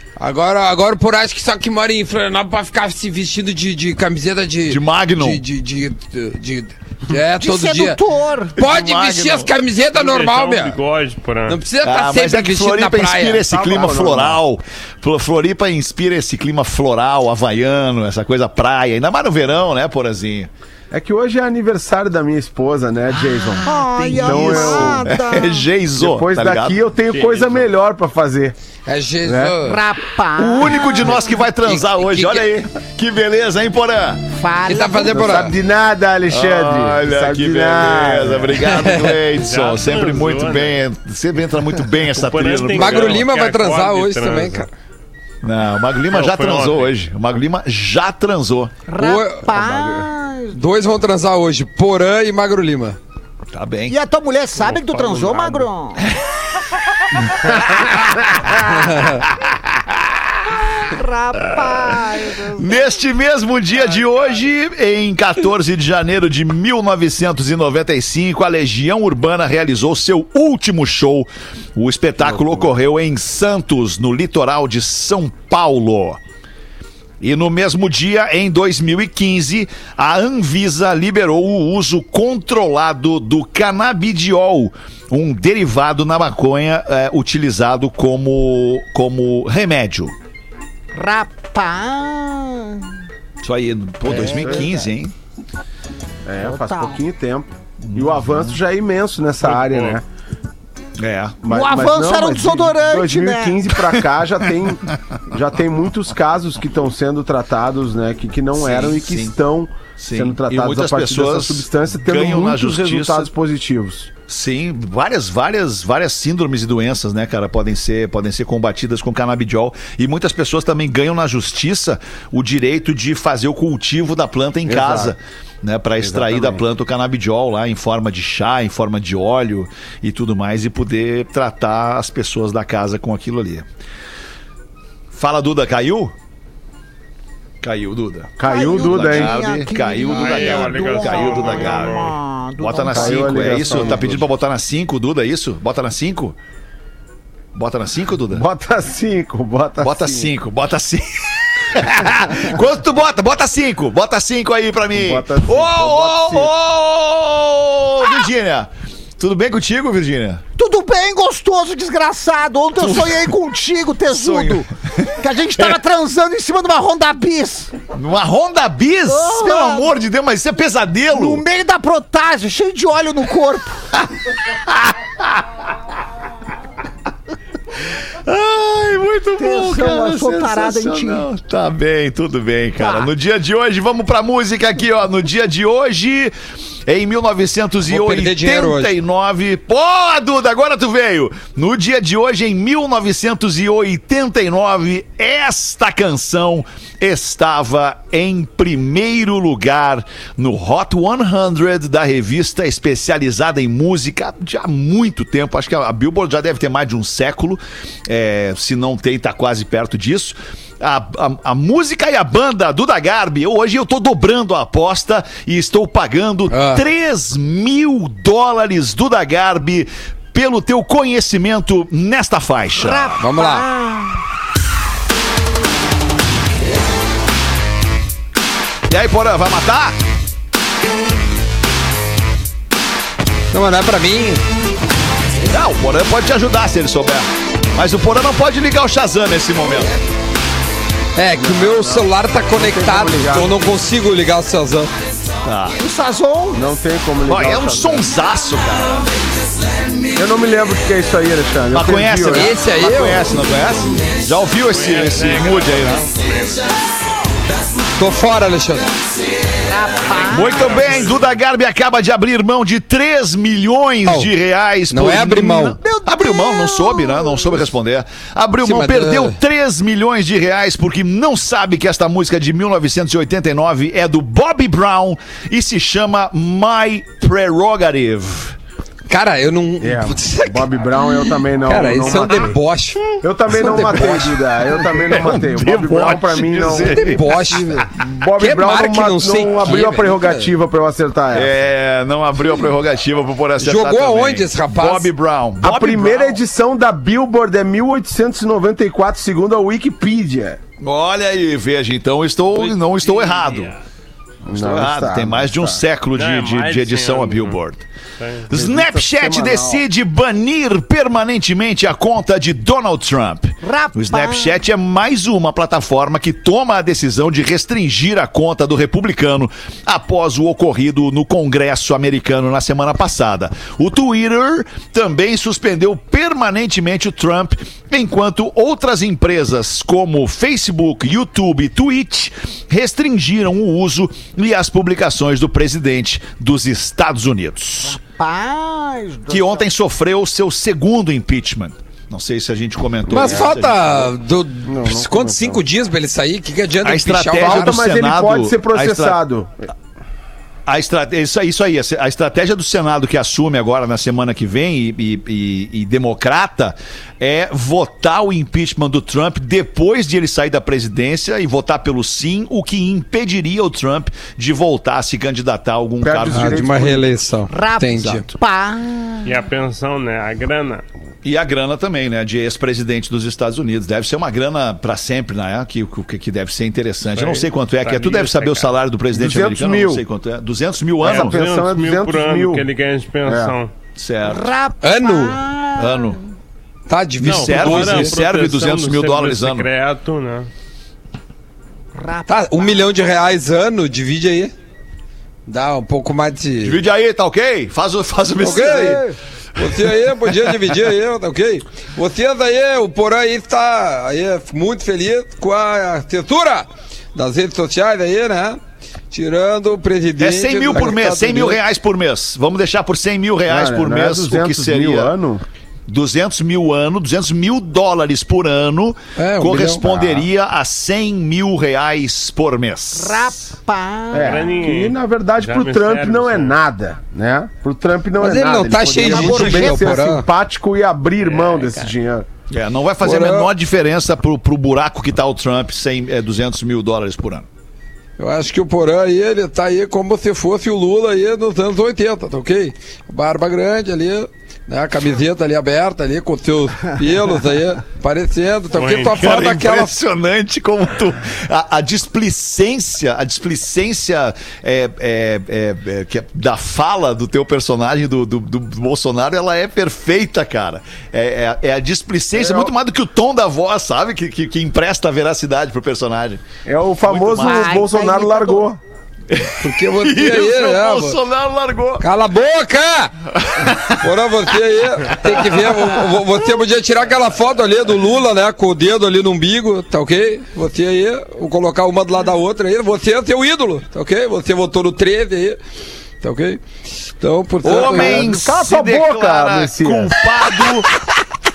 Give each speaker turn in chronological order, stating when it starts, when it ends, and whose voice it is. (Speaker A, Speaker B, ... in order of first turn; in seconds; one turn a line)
Speaker A: 0.2-8.0
Speaker B: 4.7-5.4
Speaker C: 7.4-8.6
Speaker A: 8.6-10.8
Speaker B: 8.6-9.6
Speaker D: 9.9-11.6
Speaker A: 11.5-13.5
Speaker B: 11.8-20.5
Speaker E: 13.4-14.4
Speaker E: 20.9-25.1
Speaker C: 23.6-25.6
Speaker B: 23.8-26.8
Speaker E: 26.0-28.6
Speaker D: 27.1-27.6
Speaker A: 28.9-29.8
Speaker E: 29.2-29.6
Speaker C: 29.6-30.8
Speaker B: 30.4-34.2
Speaker A: 31.7-32.5
Speaker C: 34.3-35.3
Speaker A: 34.7-35.6
Speaker E: 35.1-38.6
Speaker B: 36.3-43.3
Speaker A: 38.6-39.2
Speaker D: 39.4-40.8
Speaker D: 42.1-44.7
Speaker A: 42.7-44.7
Speaker B: 45.4-48.7
Speaker D: 46.1-46.9
Speaker C: 48.9-50.6
Speaker A: 49.0-49.5
Speaker E: 49.5-50.1
Speaker A: 50.5-53.0
Speaker B: 53.5-54.0
Speaker C: 53.9-56.0
Speaker E: 54.6-55.7
Speaker B: 57.4-60.6
Speaker A: 58.7-59.2
Speaker C: 60.8-62.8
Speaker B: 61.5-61.8
Speaker B: 62.5-76.2
Speaker E: 72.3-72.7
Speaker B: 77.2-90.1
Speaker C: 90.9-92.9
Speaker B: 93.4-95.1
Speaker C: 94.0-94.9
Speaker E: 94.1-94.7
Speaker E: 96.3-100.0
Speaker C: 96.4-97.0
Speaker B: 97.8-98.6
Speaker D: 99.4-100.0
Speaker B: 101.0-101.4
Speaker E: 101.4-114.1
Speaker C: 101.5-103.6
Speaker B: 108.5-109.3
Speaker B: 110.0-113.3
Speaker B: 114.3-133.7
Speaker E: 124.7-125.1
Speaker E: 126.0-126.6
Speaker B: 135.1-136.1
Speaker B: 137.6-146.4
Speaker E: 138.4-139.3
Speaker C: 138.4-144.0
Speaker D: 140.1-142.1
Speaker E: 142.9-144.3
Speaker B: 147.5-148.5
Speaker E: 148.3-150.3
Speaker B: 149.8-160.4
Speaker E: 154.9-156.5
Speaker C: 160.6-167.7
Speaker B: 162.8-163.3
Speaker B: 164.1-165.1
Speaker B: 167.9-171.4
Speaker C: 169.1-169.9
Speaker C: 171.1-173.8
Speaker B: 174.7-175.4
Speaker B: 178.2-186.3
Speaker C: 179.4-181.3
Speaker C: 182.8-183.1
Speaker B: 186.9-223.2
Speaker A: 187.9-188.9
Speaker A: 216.5-216.8
Speaker C: 222.8-224.2
Speaker A: 223.2-223.7
Speaker B: 228.9-230.0
Speaker A: 233.5-234.4
Speaker B: 235.4-239.9
Speaker A: 241.2-244.9
Speaker E: 241.3-243.7
Speaker B: 245.4-245.8
Speaker C: 245.8-246.6
Speaker E: 246.5-248.1
Speaker B: 247.2-249.1
Speaker E: 250.2-252.6
Speaker B: 251.7-256.1
Speaker A: 252.3-253.3
Speaker D: 254.7-256.7
Speaker A: 258.0-258.9
Speaker C: 259.6-261.1
Speaker D: 260.1-261.2
Speaker B: 260.3-278.6
Speaker A: 264.9-265.8
Speaker C: 265.8-267.6
Speaker A: 268.6-269.4
Speaker A: 279.1-285.0
Speaker E: 279.8-282.6
Speaker E: 283.2-291.5
Speaker B: 285.0-287.8
Speaker A: 286.7-287.8
Speaker A: 288.4-290.5
Speaker B: 291.3-296.4
Speaker A: 293.6-295.1
Speaker E: 295.6-300.6
Speaker B: 300.8-303.7
Speaker D: 302.6-303.8
Speaker E: 304.4-305.8
Speaker B: 304.5-307.9
Speaker D: 306.2-307.6
Speaker D: 308.2-308.5
Speaker B: 308.5-338.0
Speaker E: 308.5-309.8
Speaker C: 313.6-314.6
Speaker C: 337.8-339.7
Speaker B: 339.3-344.1
Speaker A: 343.1-347.9
Speaker E: 343.1-343.6
Speaker E: 344.7-345.6
Speaker B: 346.8-349.2
Speaker E: 347.4-349.6
Speaker B: 350.7-366.8
Speaker E: 366.0-367.2
Speaker A: 366.3-368.3
Speaker C: 367.5-369.3
Speaker D: 369.2-370.8
Speaker B: 371.2-381.4
Speaker D: 377.2-378.7
Speaker E: 379.1-380.0
Speaker E: 381.0-382.7
Speaker D: 381.0-383.7
Speaker E: 383.3-383.6
Speaker B: 384.0-384.5
Speaker C: 384.2-386.2
Speaker A: 384.8-385.4
Speaker B: 385.8-386.2
Speaker A: 386.9-388.1
Speaker B: 387.2-389.7
Speaker D: 387.2-390.5
Speaker C: 392.0-392.9
Speaker A: 392.3-394.5
Speaker A: 395.5-396.8
Speaker B: 396.6-399.0
Speaker A: 398.4-399.1
Speaker C: 398.6-399.1
Speaker A: 399.6-408.6
Speaker B: 399.6-400.5
Speaker A: 409.1-411.6
Speaker B: 410.2-415.1
Speaker E: 413.5-415.4
Speaker B: 415.9-423.4
Speaker A: 419.2-420.0
Speaker C: 422.9-424.5
Speaker E: 424.1-432.3
Speaker D: 424.2-426.6
Speaker A: 428.2-430.3
Speaker C: 429.0-430.0
Speaker D: 431.2-431.9
Speaker B: 432.5-437.5
Speaker A: 433.0-433.5
Speaker A: 438.2-449.9
Speaker D: 448.8-449.2
Speaker B: 449.1-466.4
Speaker E: 462.4-462.7
Speaker E: 466.6-468.8
Speaker B: 467.0-467.9
Speaker C: 467.4-468.7
Speaker B: 469.3-472.1
Speaker A: 469.6-471.2
Speaker A: 472.0-473.1
Speaker B: 473.4-474.1
Speaker A: 474.0-485.6
Speaker B: 475.1-475.9
Speaker A: 486.2-486.6
Speaker A: 487.2-488.4
Speaker B: 487.6-490.9
Speaker E: 487.7-490.1